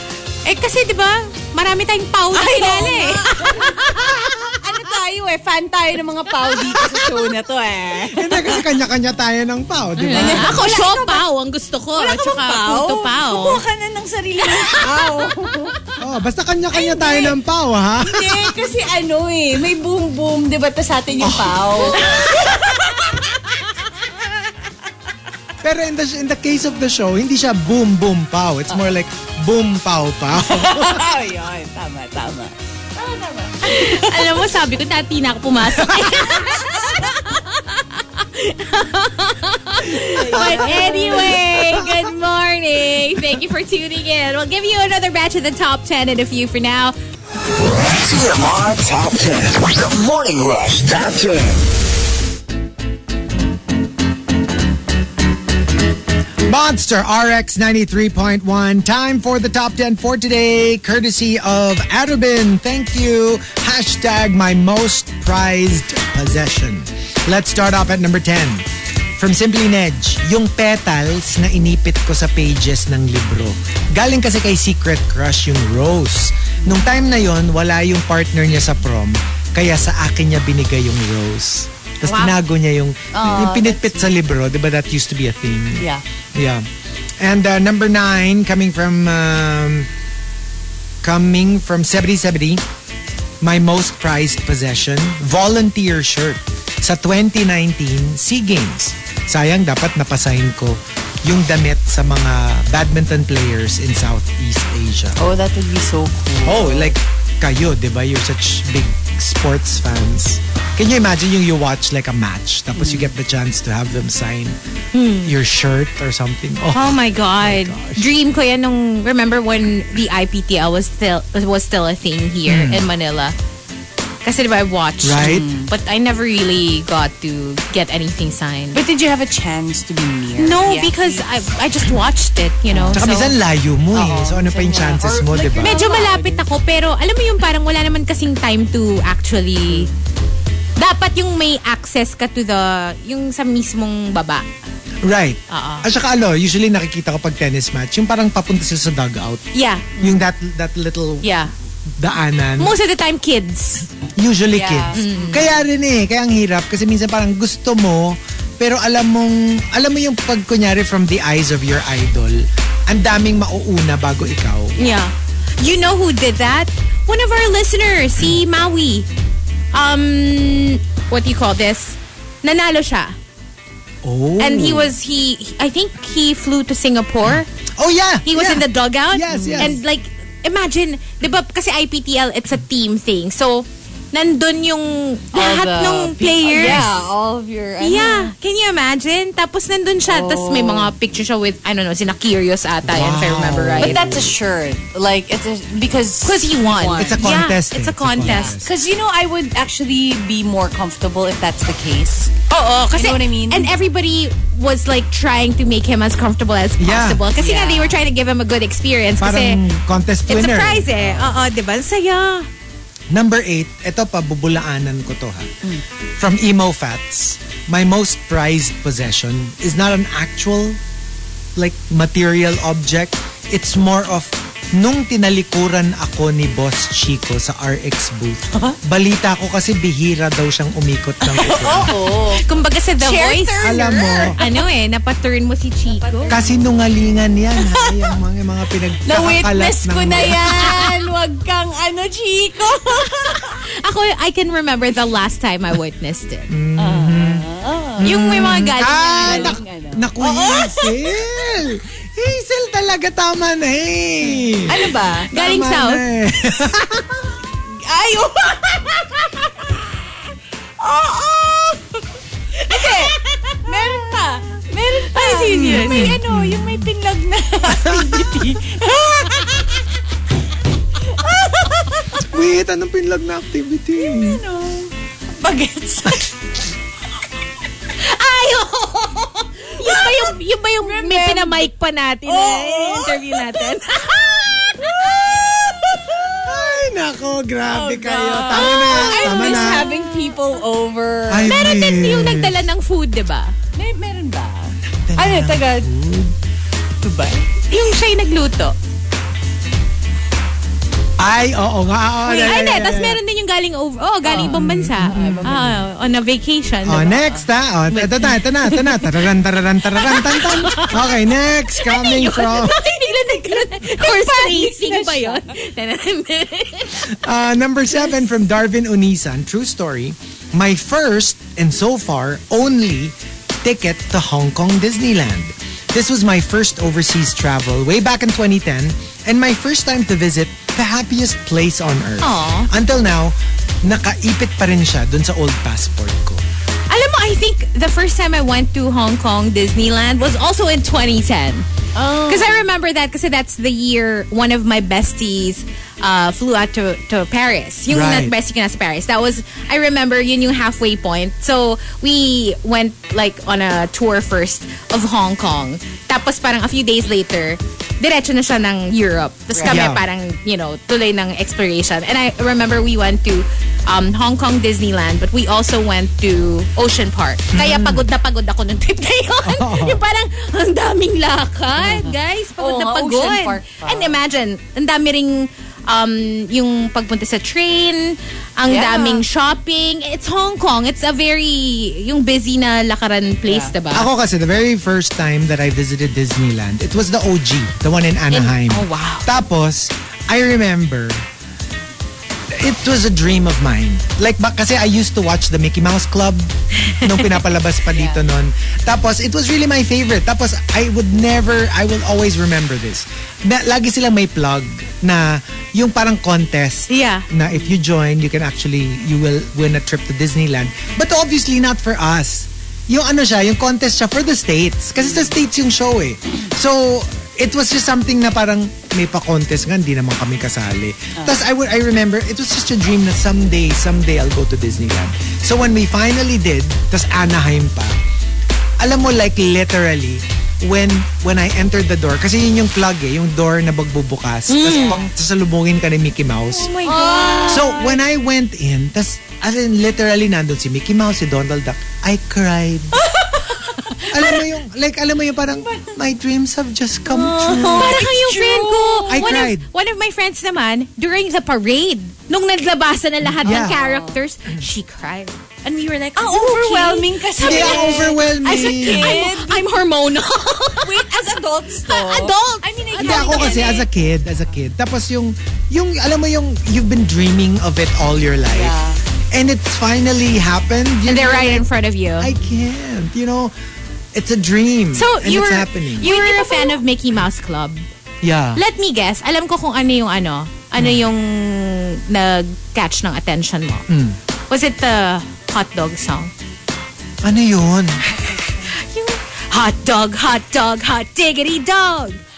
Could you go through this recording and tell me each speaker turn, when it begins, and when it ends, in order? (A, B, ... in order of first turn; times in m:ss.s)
0:00.4-0:04.2 A
0:02.3-0:08.7 B
0:06.7-0:07.0 A
0:08.1-0:10.6 C
0:10.0-0:13.6 A
0:10.1-0:11.2 B
0:12.0-0:15.8 B
0:14.4-0:15.2 A
0:16.0-0:18.6 C
0:16.7-0:17.4 B
0:18.0-0:23.3 B
0:21.2-0:22.3 C
0:25.6-0:31.1 C
0:30.4-0:34.4 B
0:33.6-0:47.0 A
0:36.3-0:37.1 B
0:40.1-0:41.9 B
0:40.4-0:40.7 C
0:47.5-0:51.6 D
0:56.4-1:26.6 C
1:22.0-1:22.4 A
1:23.1-1:24.1 B
1:27.2-1:29.9 C
1:31.0-1:32.6 C
1:33.4-1:45.2 C
1:45.2-1:46.9 B
1:46.4-1:54.6 C
1:52.8-1:53.1 B
1:54.9-1:55.3 A
1:55.2-1:58.1 C
1:56.7-2:03.4 A
2:02.4-2:02.9 C
2:04.2-2:08.8 A
2:05.0-2:05.5 C
2:05.2-2:05.7 B
2:08.7-2:11.4 B
2:10.4-2:13.3 A
2:12.7-2:13.1 B
2:12.9-2:15.9 C
2:13.9-2:16.5 B
2:15.6-2:19.9 A
2:20.8-2:24.4 A
2:25.0-2:29.4 C
2:25.5-2:25.9 A
2:29.5-2:30.0 A
2:30.0-2:31.3 C
2:31.2-2:31.5 A
2:32.0-2:32.8 C
2:32.6-2:33.9 A
2:34.2-2:44.8 C
2:34.5-2:35.5 B
2:34.9-2:35.5 A
2:44.8-2:49.1 A
2:49.7-2:53.1 A
2:54.0-2:54.9 C
2:54.4-2:57.5 A
2:57.2-2:59.8 C
2:58.2-3:06.9 A
2:59.3-2:59.8 B
3:05.3-3:08.3 B
3:06.6-3:06.9 C
3:07.8-3:14.0 A
3:10.1-3:10.9 B
3:12.8-3:14.4 C
3:13.8-3:17.4 B
3:16.2-3:18.6 A
3:17.0-3:18.7 C
3:18.2-3:22.4 B
3:22.5-3:29.6 A
3:22.9-3:23.7 B
3:26.8-3:27.3 C
3:27.4-3:28.0 B
3:29.2-3:31.1 C
3:30.3-3:32.5 A
3:31.0-3:31.3 B
3:33.1-3:35.5 C
3:36.2-3:40.8 C
3:41.6-3:52.0 C
3:51.3-3:52.4 B
3:52.3-3:56.4 A
3:53.0-3:54.6 B
3:53.6-3:54.4 C
3:55.9-3:56.4 B
3:56.3-4:00.8 C
3:57.6-3:58.1 B
3:59.0-4:03.7 B
4:00.5-4:00.9 A
4:03.3-4:06.5 A
4:06.5-4:07.5 C
4:06.8-4:08.1 B
4:08.0-4:17.1 C
4:08.0-4:09.6 A
4:08.9-4:11.5 B
4:14.7-4:15.3 B
4:15.3-4:16.0 A
4:17.7-4:20.1 B
4:20.8-4:22.0 B
4:22.6-4:29.7 B
4:22.7-4:24.0 A
4:25.1-4:26.2 A
4:25.5-4:26.9 C
4:27.6-4:28.4 C
4:31.0-4:32.4 B
4:32.2-4:34.4 C
4:34.0-4:36.3 B
4:38.0-4:45.3 A
4:39.8-4:41.7 B
4:42.3-4:43.7 B
4:44.5-4:46.7 B
4:46.3-4:49.9 C
4:47.7-4:51.5 B
4:48.5-4:50.4 A
4:51.3-4:52.6 C
4:51.4-4:53.5 A
4:53.8-4:55.9 B
4:54.8-4:56.3 C
4:57.0-4:57.6 B
4:57.7-4:58.7 A
5:01.2-5:03.2 C
5:02.3-5:07.2 A
5:04.2-5:05.8 B
5:04.4-5:05.5 C
5:06.8-5:12.8 C
5:07.1-5:07.4 B
5:07.9-5:09.1 A
5:10.0-5:17.1 A
5:13.8-5:15.5 B
5:17.1-5:36.4 C
5:32.2-5:32.7 A
5:36.9-5:41.7 A
5:42.0-5:42.7 B
5:42.3-6:24.1 A
5:47.9-5:48.3 C
5:59.5-5:59.8 B
5:59.7-6:00.0 C
6:07.5-6:08.1 C
6:09.4-6:10.0 C
6:11.8-6:14.2 B
6:18.7-6:19.2 B
6:23.5-6:23.7 B
6:23.9-6:31.3 C
6:28.3-6:29.3 A
6:32.5-7:08.0 C
6:37.9-6:38.2 B
6:46.9-6:47.3 A
6:47.5-6:47.8 B
6:55.0-6:55.3 B
7:08.8-7:16.7 C
7:14.5-7:15.0 A
7:14.7-7:15.0 B
7:16.5-7:18.0 B
7:16.8-7:17.8 A
7:17.4-7:23.1 C
7:23.0-7:24.4 B
7:24.1-7:28.1 C
7:25.6-7:25.9 B
7:27.1-7:29.3 B
7:27.4-7:41.2 A
7:29.1-7:29.7 C
7:33.4-7:33.8 C
7:33.4-7:34.2 B
7:36.2-7:39.7 B
7:37.4-7:39.2 C
7:40.8-7:43.9 B
7:41.8-7:43.8 A
7:43.0-7:48.8 C
7:48.5-7:49.0 B
7:49.3-7:51.7 C
7:51.1-7:52.3 A
7:52.2-7:53.5 C
7:54.1-7:56.1 C
7:54.9-7:57.8 A
7:56.0-7:56.8 B
7:58.2-7:58.6 C
7:58.6-8:03.9 A
8:00.8-8:01.1 C
8:03.9-8:04.2 C
8:04.5-8:06.3 A
8:07.2-8:08.0 C
8:08.2-8:12.2 A